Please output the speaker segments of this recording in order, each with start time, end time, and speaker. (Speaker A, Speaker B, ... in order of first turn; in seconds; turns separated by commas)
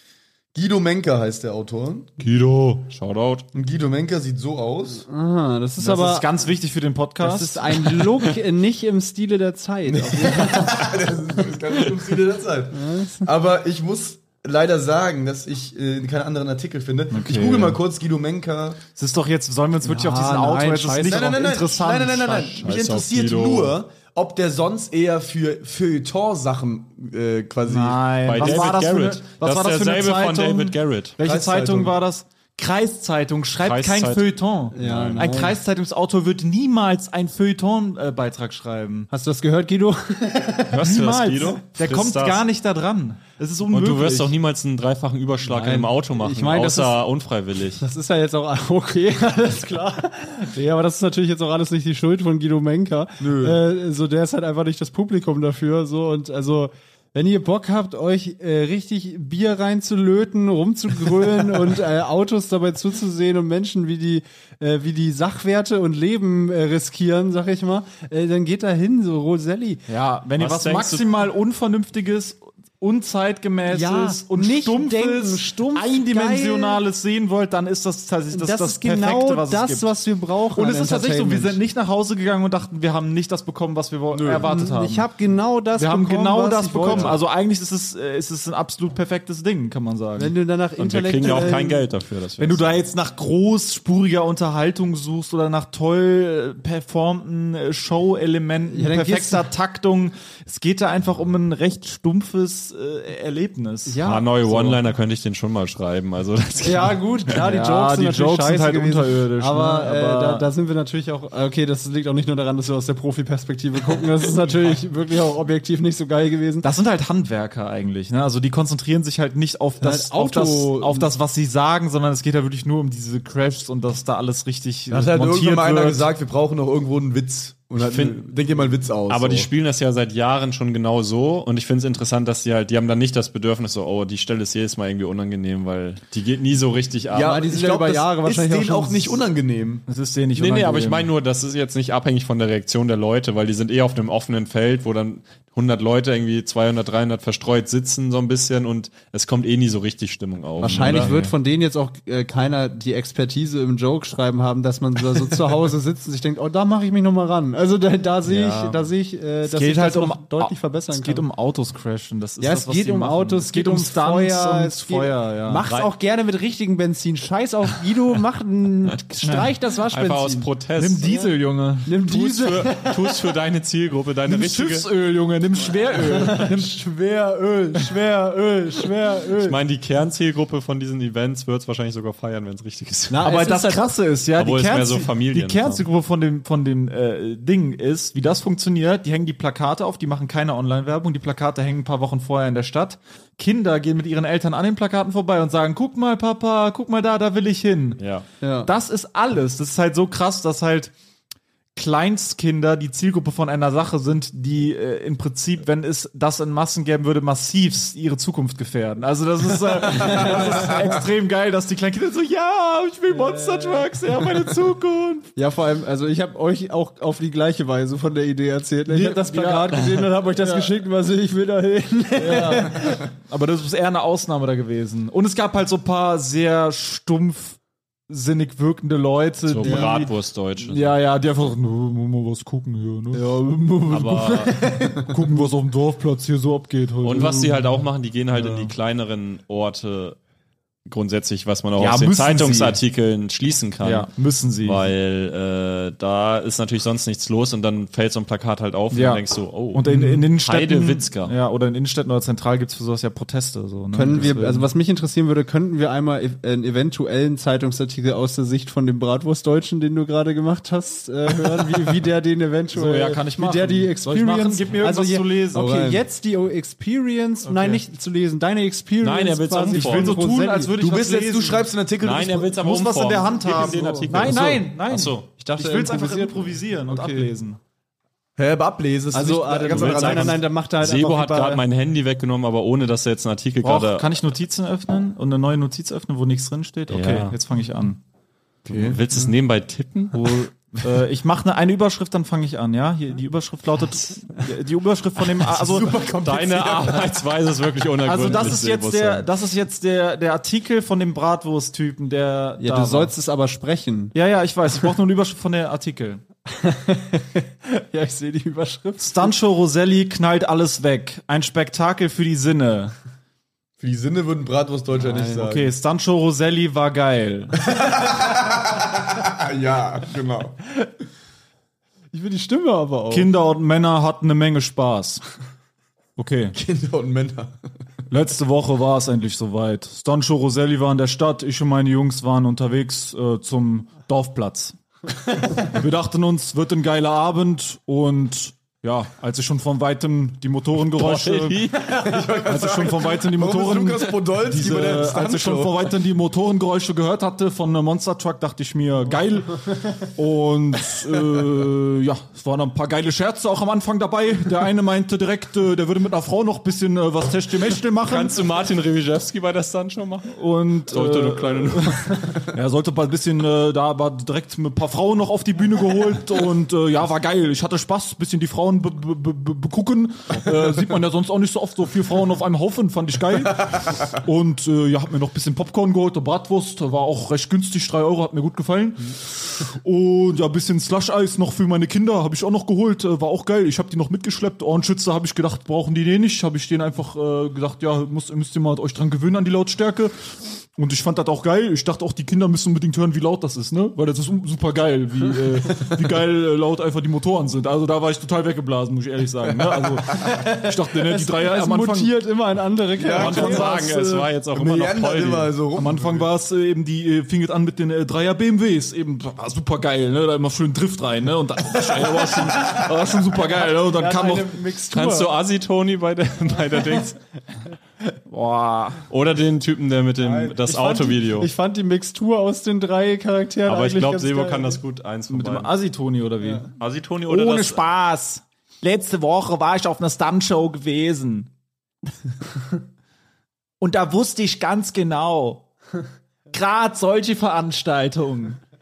Speaker A: 0.5-2.1, Speaker B: 2.2-3.5, Speaker A: 3.5-5.0, Speaker C: 5.1-6.3, Speaker D: 5.8-8.0, Speaker C: 7.2-10.9, Speaker A: 9.9-18.8, Speaker C: 12.7-13.3, Speaker D: 17.1-17.8, Speaker D: 18.9-22.6, Speaker C: 19.8-21.3, Speaker A: 21.0-28.1, Speaker B: 22.6-23.8, Speaker D: 27.6-39.1, Speaker B: 28.2-31.2, Speaker A: 31.2-31.9, Speaker B: 33.6-35.3, Speaker C: 34.7-35.6, Speaker C: 39.1-40.8, Speaker B: 40.7-42.4, Speaker D: 40.8-44.3, Speaker B: 43.7-47.8, Speaker C: 45.4-47.0, Speaker C: 47.8-69.8, Speaker A: 53.2-53.6, Speaker D: 69.9-79.9, Speaker B: 70.4-71.1, Speaker C: 73.7-76.8, Speaker C: 78.3-81.6, Speaker D: 80.5-85.1, Speaker A: 84.1-84.5, Speaker C: 84.4-87.2, Speaker D: 85.7-90.3, Speaker B: 86.9-87.1, Speaker C: 90.2-91.8, Speaker B: 90.8-92.7, Speaker D: 92.4-104.8, Speaker C: 98.7-99.5, Speaker C: 103.9-104.3, Speaker B: 104.0-107.0, Speaker C: 106.6-116.7, Speaker D: 107.3-110.5, Speaker D: 116.6-126.1, Speaker C: 119.8-121.1, Speaker A: 124.9-129.5, Speaker B: 127.8-128.2, Speaker B: 129.1-137.4, Speaker A: 137.1-139.8, Speaker C: 137.2-139.2, Speaker D: 139.9-141.1, Speaker B: 140.3-151.1, Speaker D: 150.6-151.3, Speaker C: 150.6-161.2, Speaker D: 158.2-158.9, Speaker D: 159.4-165.6, Speaker C: 162.4-170.5, Speaker B: 169.1-171.1, Speaker D: 169.2-169.5, Speaker D: 170.8-172.0, Speaker C: 171.0-171.3, Speaker C: 171.8-173.3, Speaker B: 172.1-174.9, Speaker D: 174.3-176.5, Speaker C: 176.0-179.6, Speaker B: 179.4-183.3, Speaker C: 183.1-183.8, Speaker D: 183.2-198.0, Speaker B: 184.4-185.8, Speaker B: 198.0-198.2, Speaker C: 198.4-198.7, Speaker D: 198.6-200.9, Speaker D: 201.7-215.3, Speaker C: 210.1-210.3, Speaker C: 213.1-213.8, Speaker C: 215.3-223.0, Speaker D: 218.9-220.7, Speaker D: 222.2-227.6, Speaker D: 228.1-233.2, Speaker B: 229.5-230.9, Speaker C: 229.6-230.0, Speaker C: 233.1-235.4, Speaker B: 233.9-234.7, Speaker D: 235.0-237.8, Speaker B: 237.0-240.2, Speaker D: 238.3-238.7, Speaker B: 240.8-244.1, Speaker D: 241.8-242.8, Speaker D: 243.8-244.9, Speaker B: 244.6-251.3, Speaker D: 248.9-249.2, Speaker D: 249.7-254.7, Speaker C: 253.9-270.7, Speaker D: 262.7-265.8, Speaker A: 265.5-266.0, Speaker D: 267.4-267.8, Speaker B: 269.0-270.2, Speaker D: 269.7-271.7, Speaker A: 270.8-272.6, Speaker B: 272.0-275.3, Speaker D: 272.6-277.6, Speaker C: 273.4-274.3, Speaker C: 275.4-277.3, Speaker A: 278.4-280.4, Speaker C: 279.1-281.6, Speaker B: 279.7-284.1, Speaker D: 283.6-288.0, Speaker B: 286.9-287.3, Speaker A: 288.6-289.0, Speaker B: 288.6-290.3, Speaker D: 290.1-295.9, Speaker A: 295.4-297.1, Speaker B: 296.0-299.2, Speaker D: 298.0-303.1, Speaker C: 302.6-304.1, Speaker D: 304.1-306.2, Speaker C: 306.5-309.3, Speaker D: 309.0-312.9, Speaker A: 313.8-315.7, Speaker C: 315.0-315.4, Speaker D: 315.4-317.6, Speaker A: 317.6-320.6, Speaker C: 322.1-323.3, Speaker D: 323.1-325.2, Speaker D: 326.2-326.6, Speaker A: 326.5-327.6, Speaker D: 328.1-334.8, Speaker D: 335.5-341.7, Speaker B: 340.9-342.3, Speaker A: 341.9-345.9, Speaker D: 342.4-358.4, Speaker B: 358.0-360.3, Speaker D: 360.3-390.1, Speaker B: 360.9-362.4, Speaker D: 390.8-402.1, Speaker C: 400.3-404.2, Speaker A: 403.0-403.6, Speaker B: 403.0-405.5, Speaker A: 404.5-406.2, Speaker D: 405.7-414.6, Speaker C: 413.8-415.3, Speaker B: 414.9-417.2, Speaker D: 418.3-419.0, Speaker B: 419.1-421.5, Speaker C: 420.2-424.8, Speaker B: 423.6-425.7, Speaker D: 425.3-426.7, Speaker B: 426.8-427.8, Speaker D: 427.2-431.5, Speaker D: 433.8-435.7, Speaker D: 436.5-438.6